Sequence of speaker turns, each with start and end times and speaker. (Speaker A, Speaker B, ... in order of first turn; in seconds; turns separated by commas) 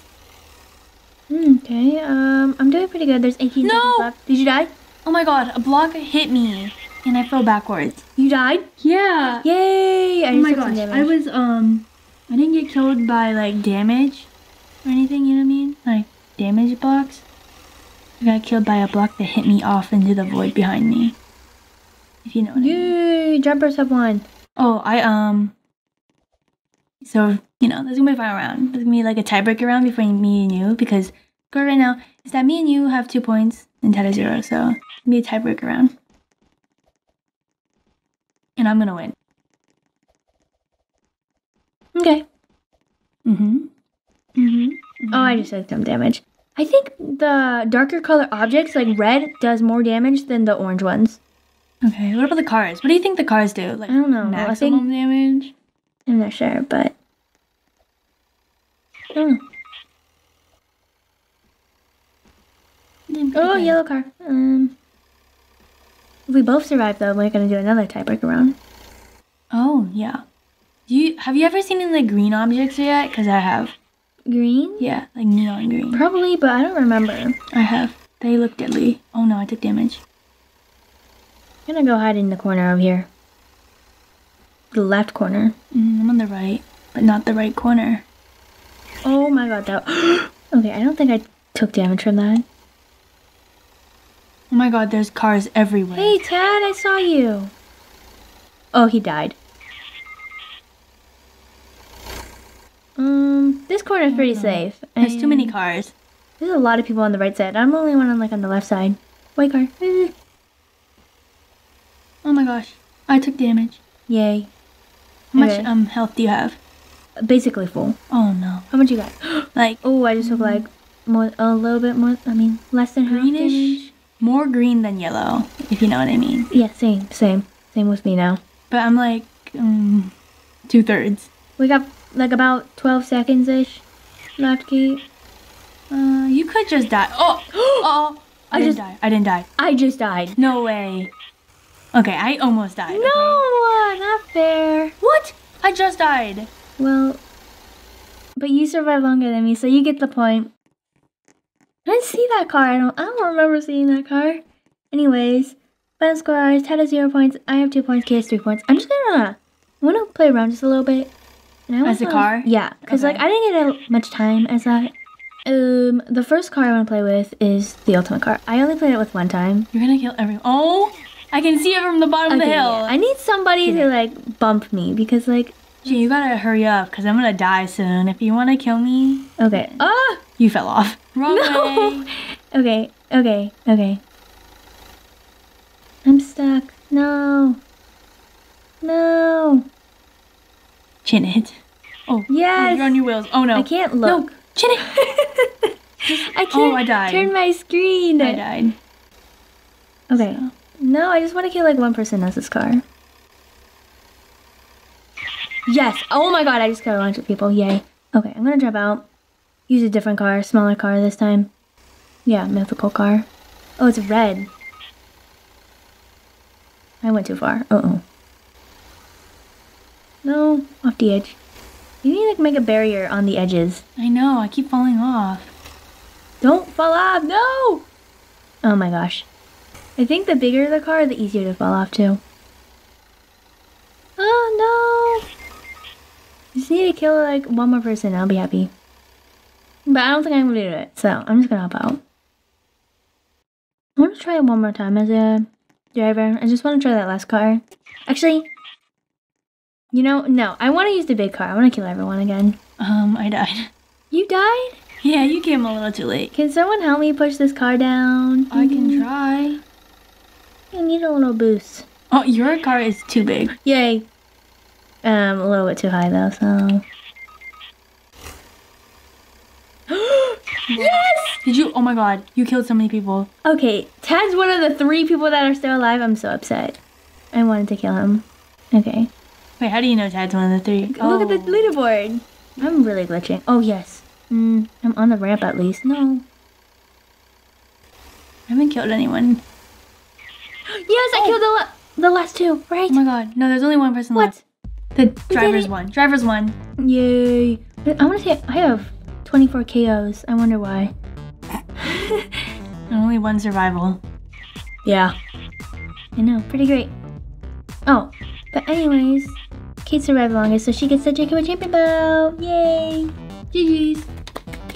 Speaker A: 1.3-4.7, Speaker B: 3.6-4.1, Speaker B: 5.0-8.0, Speaker A: 8.2-8.7, Speaker B: 8.8-9.5, Speaker A: 9.4-11.1, Speaker B: 10.3-14.3, Speaker B: 14.8-17.2, Speaker B: 18.2-21.2, Speaker B: 22.2-22.9, Speaker A: 22.6-24.2, Speaker B: 24.6-25.5, Speaker B: 27.0-35.9, Speaker B: 38.6-39.1, Speaker A: 42.0-42.2, Speaker B: 43.2-43.7, Speaker A: 44.4-51.2, Speaker B: 45.0-45.5, Speaker B: 51.8-55.5, Speaker A: 53.9-54.9, Speaker A: 56.1-56.9, Speaker A: 59.1-59.4, Speaker B: 63.1-63.8, Speaker A: 63.4-64.8, Speaker A: 66.3-68.6, Speaker B: 69.5-70.2, Speaker B: 70.9-73.7, Speaker A: 74.3-74.9, Speaker B: 74.8-76.0, Speaker A: 75.9-77.4, Speaker B: 77.5-80.0, Speaker A: 81.7-83.1, Speaker A: 84.7-85.5, Speaker B: 85.7-88.0, Speaker A: 89.0-92.4, Speaker B: 94.5-96.2, Speaker A: 95.9-97.5, Speaker A: 98.7-99.4, Speaker A: 103.0-105.5, Speaker B: 104.1-105.9, Speaker A: 106.4-110.1, Speaker B: 112.2-113.8, Speaker A: 114.1-114.5, Speaker B: 115.3-116.6, Speaker A: 115.4-115.7, Speaker A: 117.2-118.0, Speaker B: 118.1-118.7, Speaker A: 118.7-123.9, Speaker B: 119.5-120.7, Speaker B: 123.1-126.5, Speaker A: 126.5-128.4, Speaker B: 128.7-130.1, Speaker B: 130.7-131.3, Speaker A: 131.6-133.8, Speaker A: 134.4-135.0, Speaker B: 135.9-139.5, Speaker A: 137.5-137.9, Speaker A: 138.5-138.8, Speaker A: 139.6-140.4, Speaker B: 140.4-141.1, Speaker B: 141.9-143.4, Speaker A: 142.9-145.0, Speaker B: 145.0-146.5, Speaker A: 146.8-147.2, Speaker A: 148.4-150.5, Speaker A: 151.9-161.1, Speaker A: 161.7-164.9, Speaker B: 161.8-163.2, Speaker A: 165.4-169.7, Speaker B: 169.7-172.9, Speaker A: 172.3-175.6, Speaker B: 173.7-173.9, Speaker B: 175.8-179.8, Speaker A: 179.4-180.2, Speaker B: 180.4-182.1, Speaker A: 181.3-184.0, Speaker A: 186.1-187.6, Speaker A: 188.8-189.7, Speaker B: 191.0-194.9, Speaker A: 192.3-193.0, Speaker A: 193.5-198.4, Speaker B: 196.1-197.3, Speaker B: 198.2-198.8, Speaker A: 200.1-202.8, Speaker B: 200.1-200.5, Speaker A: 205.7-209.1, Speaker A: 209.7-211.5, Speaker A: 212.2-214.5, Speaker A: 217.0-218.0, Speaker A: 220.2-221.4, Speaker A: 222.0-223.8, Speaker B: 224.0-225.5, Speaker A: 226.4-227.9, Speaker A: 228.6-229.3, Speaker A: 230.0-232.2, Speaker A: 234.2-235.2, Speaker A: 236.5-238.7, Speaker A: 239.9-242.0, Speaker A: 244.0-248.5, Speaker A: 249.9-252.6, Speaker B: 252.8-253.7, Speaker A: 254.1-254.8, Speaker B: 255.0-256.3, Speaker A: 256.3-259.1, Speaker B: 258.5-259.6, Speaker A: 260.7-261.9, Speaker B: 262.1-263.5, Speaker A: 263.6-264.1, Speaker A: 265.0-266.8, Speaker A: 269.9-271.4, Speaker B: 270.7-273.3, Speaker A: 273.4-276.8, Speaker A: 277.3-279.1, Speaker B: 279.6-281.7, Speaker A: 280.9-286.2, Speaker B: 288.5-289.4, Speaker A: 290.7-293.0, Speaker B: 292.9-294.4, Speaker A: 294.1-294.4, Speaker B: 294.9-296.6, Speaker A: 295.3-295.7, Speaker A: 296.8-300.9, Speaker A: 301.8-302.3, Speaker B: 302.9-304.0, Speaker A: 304.9-305.1, Speaker A: 306.2-306.9, Speaker A: 307.9-313.1, Speaker B: 313.5-314.1